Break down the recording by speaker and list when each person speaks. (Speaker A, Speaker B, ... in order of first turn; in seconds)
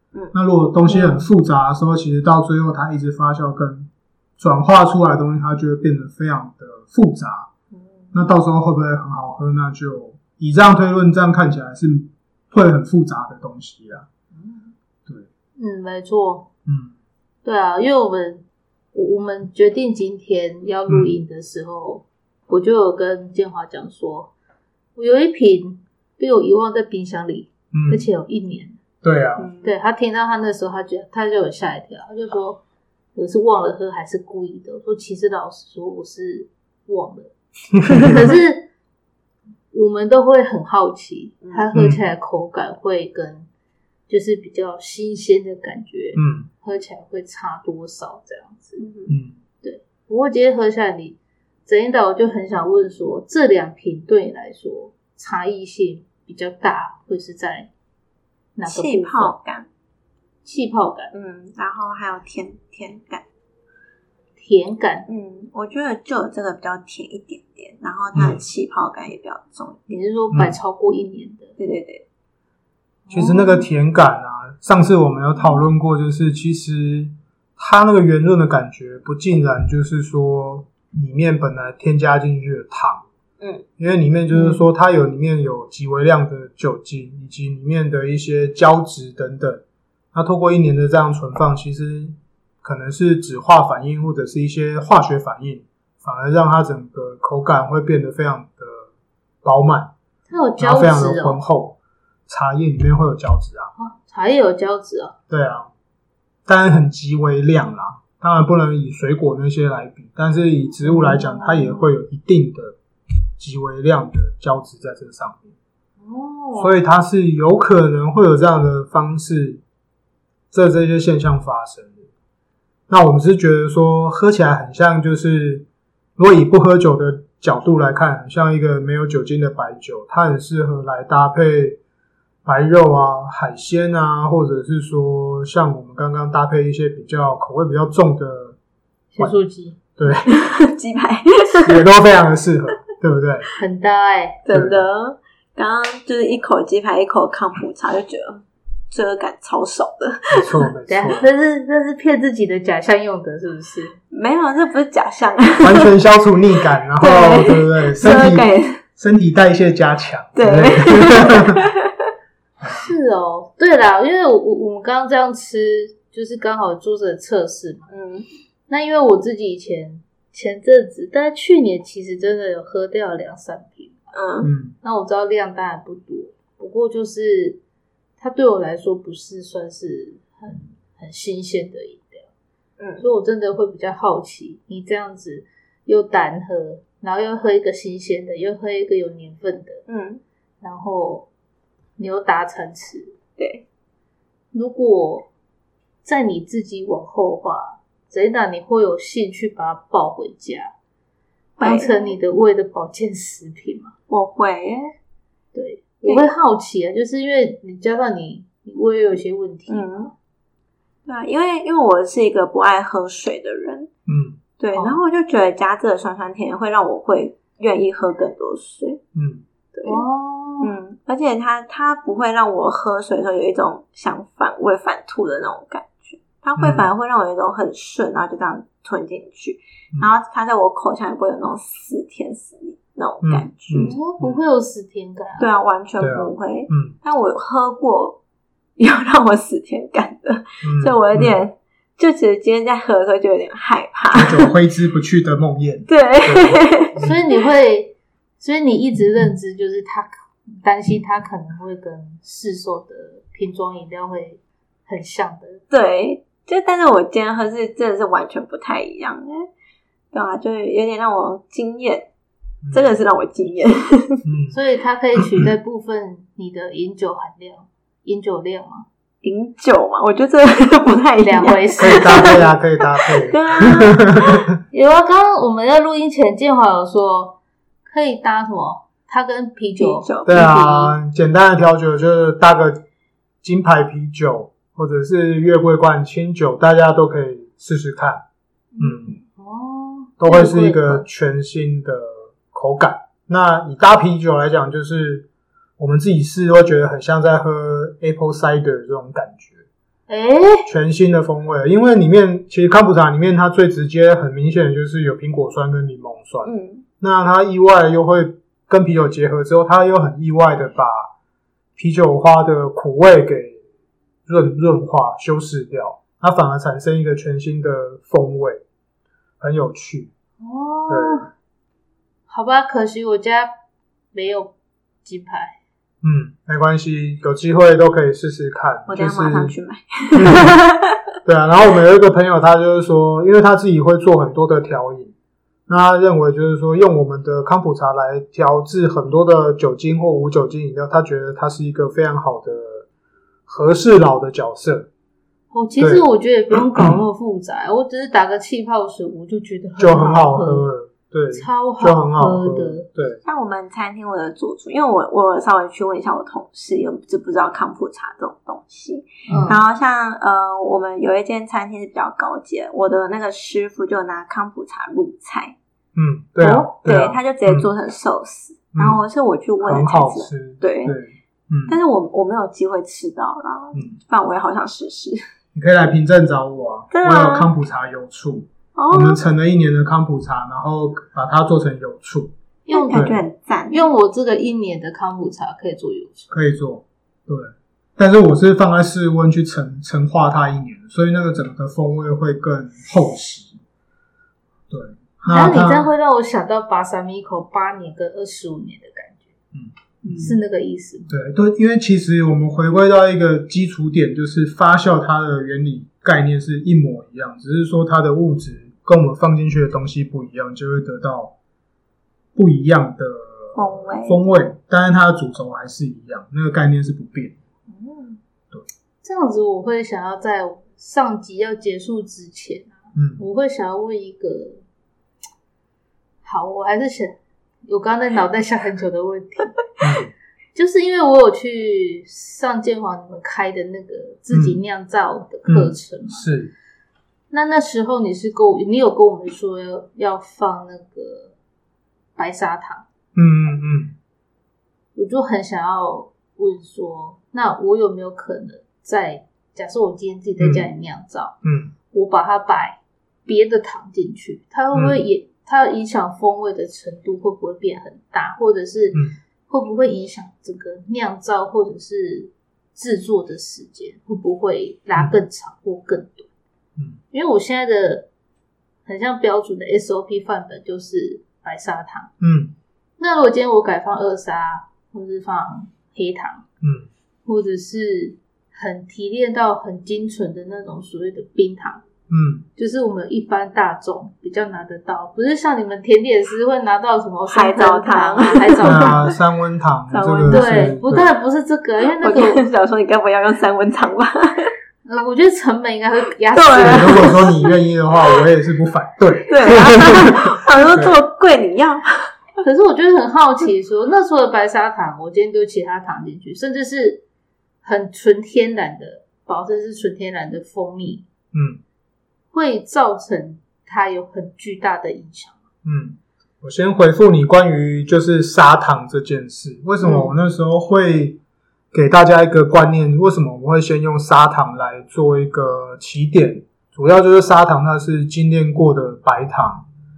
Speaker A: 0.3-7.5, 8.1-14.1, 16.7-16.9, 20.9-21.1, 27.7-28.1, 29.0-29.5, 37.8-38.3, 41.7-42.0, 46.2-46.5, 49.1-49.4, 68.1-68.4, 70.3-70.6, 73.1-83.0, 83.8-98.9, 99.4-99.9, 100.6-101.8, 102.3-103.7, 105.3-105.7, 106.5-112.8, 113.4-115.5, 116.6-119.6, 120.5-122.0, 122.9-131.8, 132.4-138.6, 140.0-140.3, 141.6-143.5, 144.5-144.9, 150.3-151.3, 155.6-161.6, 162.6-162.9, 174.4-174.8, 214.1-214.4, 219.2-219.4, 226.6-226.9, 233.2-234.4, 236.0-236.9, 240.6-241.4, 244.1-247.2, 262.6-263.0, 264.2-264.6, 271.8-274.5, 280.3-282.8, 283.4-288.2, 288.8-289.1, 290.2-295.3, 295.8-299.6, 300.7-311.1, 311.8-313.6, 314.3-318.6, 319.4-320.1, 320.9-321.3, 326.0-329.6, 330.2-330.6, 331.2-335.1, 335.7-342.9, 343.5-344.9, 345.8-347.0, 349.8-353.2, 359.3-359.6, 365.9-367.7, 368.8-369.0, 369.6-371.8, 375.6-382.3, 382.9-383.2, 386.3-393.6, 394.7-395.9, 399.5-400.4, 401.1-411.4, 412.4-417.4, 422.9-423.2, 429.8-430.1, 434.3-434.6, 435.5-436.5, 443.1-443.9, 450.4-450.7, 451.4-451.7, 454.7-455.0, 472.2-472.6, 476.6-476.9, 482.1-482.5, 488.6-491.1, 496.5-500.9, 511.3-511.6, 515.6-521.2, 521.7-529.7
Speaker B: 0.9-1.2, 7.7-8.2, 14.3-14.7, 29.4-29.8, 48.8-49.1, 58.7-59.7, 61.1-63.2, 65.1-70.0, 71.6-72.0, 83.4-83.7, 140.1-141.8, 144.4-150.7, 154.1-155.9, 157.0-158.8, 160.3-161.9, 167.9-168.3, 174.1-174.5, 182.8-183.1, 189.9-190.2, 193.4-193.7, 201.6-202.2, 204.1-204.9, 209.7-210.1, 211.1-213.9, 214.6-219.0, 219.7-220.0, 220.6-234.0, 235.4-238.2, 238.8-244.5, 245.9-247.0, 255.7-259.5, 260.1-262.1, 262.7-264.2, 269.2-274.4, 279.8-280.6, 306.4-306.9, 328.9-331.0, 353.2-365.6, 366.4-371.0, 371.7-375.2, 376.9-377.5, 378.8-379.2, 382.7-383.8, 400.0-400.3, 413.6-414.2, 417.7-418.2, 487.3-489.1, 489.9-490.8, 492.0-494.5, 496.3-497.5, 499.3-501.9
Speaker C: 15.6-16.5, 17.4-24.3, 25.0-28.8, 29.6-32.6, 33.1-37.3, 37.9-38.7, 39.7-43.5, 44.1-48.8, 49.6-57.7, 58.6-59.4, 60.4-61.1, 64.4-65.1, 69.9-71.6, 73.1-73.7, 84.3-84.6, 100.3-101.4, 103.8-105.1, 110.9-111.8, 116.0-116.7, 139.1-139.8, 143.6-144.4, 150.9-154.0, 162.7-167.9, 168.7-174.1, 174.8-177.6, 178.2-182.3, 183.0-189.8, 190.6-191.3, 192.0-193.2, 194.5-195.3, 196.0-200.7, 201.6-203.9, 205.5-210.1, 214.8-215.0, 219.9-220.7, 233.8-235.5, 247.0-255.6, 264.5-268.9, 271.2-272.5, 274.7-280.9, 288.8-291.1, 300.1-300.7, 320.4-321.3, 322.3-323.5, 324.1-325.6, 345.5-350.7, 351.3-352.9, 359.3-359.6, 382.7-383.1, 383.7-386.3, 395.3-399.3, 400.2-401.1, 419.0-424.6, 426.2-429.6, 430.6-436.3, 437.3-441.3, 442.2-442.9, 444.9-451.4, 451.9-466.3, 467.1-468.1, 468.9-472.1, 473.0-476.4, 477.3-481.8, 482.6-489.1, 490.3-492.4, 494.9-497.3, 502.4-507.0, 507.6-511.1, 512.3-515.4, 519.8-520.1